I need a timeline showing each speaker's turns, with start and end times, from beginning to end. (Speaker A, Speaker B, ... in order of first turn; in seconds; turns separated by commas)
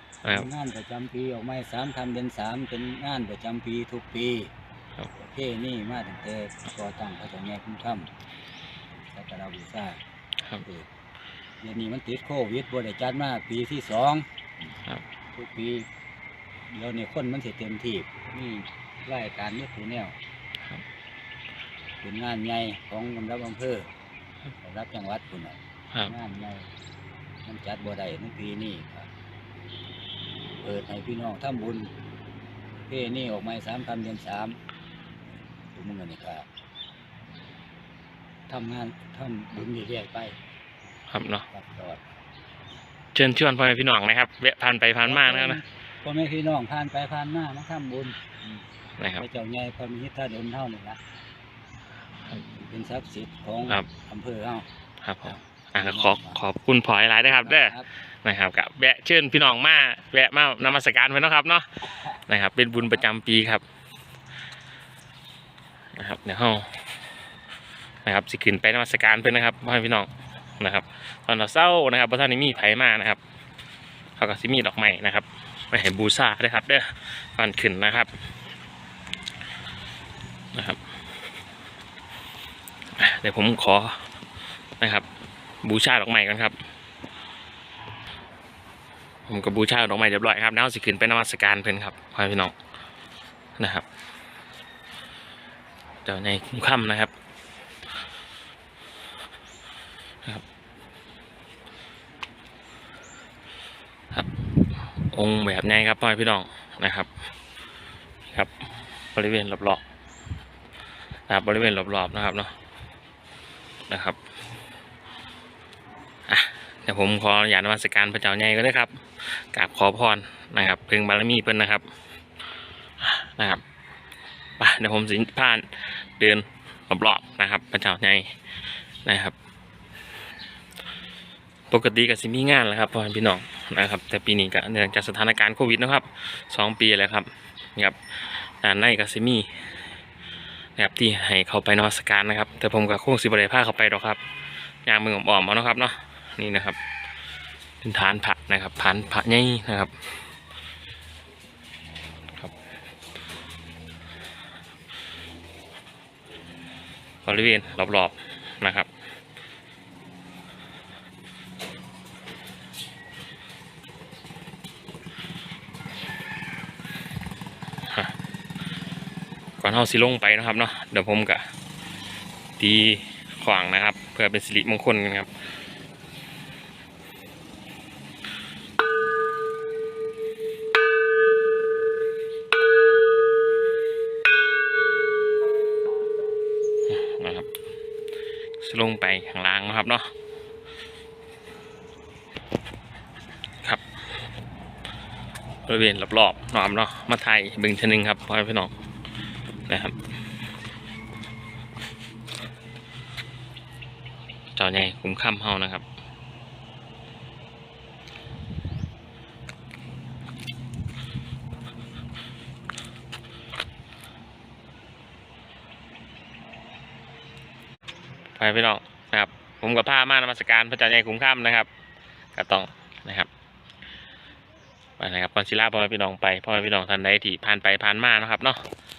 Speaker A: 0.3-4.5, Speaker A: 5.2-8.1, Speaker A: 9.1-10.0, Speaker A: 10.6-10.9, Speaker A: 11.6-14.3, Speaker A: 15.3-15.8, Speaker A: 16.7-20.1, Speaker A: 22.0-23.9, Speaker A: 24.6-26.7, Speaker A: 27.4-29.1, Speaker A: 30.6-31.9, Speaker A: 32.9-34.6, Speaker A: 35.7-36.5, Speaker A: 38.5-40.4, Speaker B: 41.1-41.5, Speaker A: 41.5-42.0, Speaker B: 43.1-45.6, Speaker A: 45.0-48.6, Speaker B: 49.0-49.2, Speaker A: 49.2-51.0, Speaker A: 52.5-54.7, Speaker B: 55.0-63.6, Speaker A: 55.8-56.4, Speaker A: 57.4-57.9, Speaker B: 66.0-66.7, Speaker B: 68.0-73.2, Speaker B: 74.2-78.1, Speaker B: 80.5-80.8, Speaker B: 83.0-84.0, Speaker B: 84.8-85.0, Speaker B: 85.6-86.6, Speaker B: 89.3-92.5, Speaker B: 93.6-93.8, Speaker B: 96.0-97.1, Speaker B: 104.1-107.1, Speaker B: 109.1-109.8, Speaker B: 111.3-112.5, Speaker B: 113.9-114.2, Speaker B: 116.3-121.8, Speaker B: 123.0-123.6, Speaker B: 124.6-128.3, Speaker B: 129.0-129.3, Speaker B: 131.7-138.0, Speaker B: 138.6-139.5, Speaker B: 140.8-144.2, Speaker B: 144.8-146.8, Speaker B: 147.8-149.9, Speaker B: 157.2-158.9, Speaker B: 167.9-168.1, Speaker B: 169.6-171.4, Speaker B: 172.6-175.3, Speaker B: 186.9-187.5, Speaker B: 188.6-190.1, Speaker B: 195.7-198.7, Speaker B: 199.7-199.9, Speaker B: 204.5-205.8, Speaker B: 218.4-221.7, Speaker B: 222.3-223.3, Speaker B: 225.0-228.6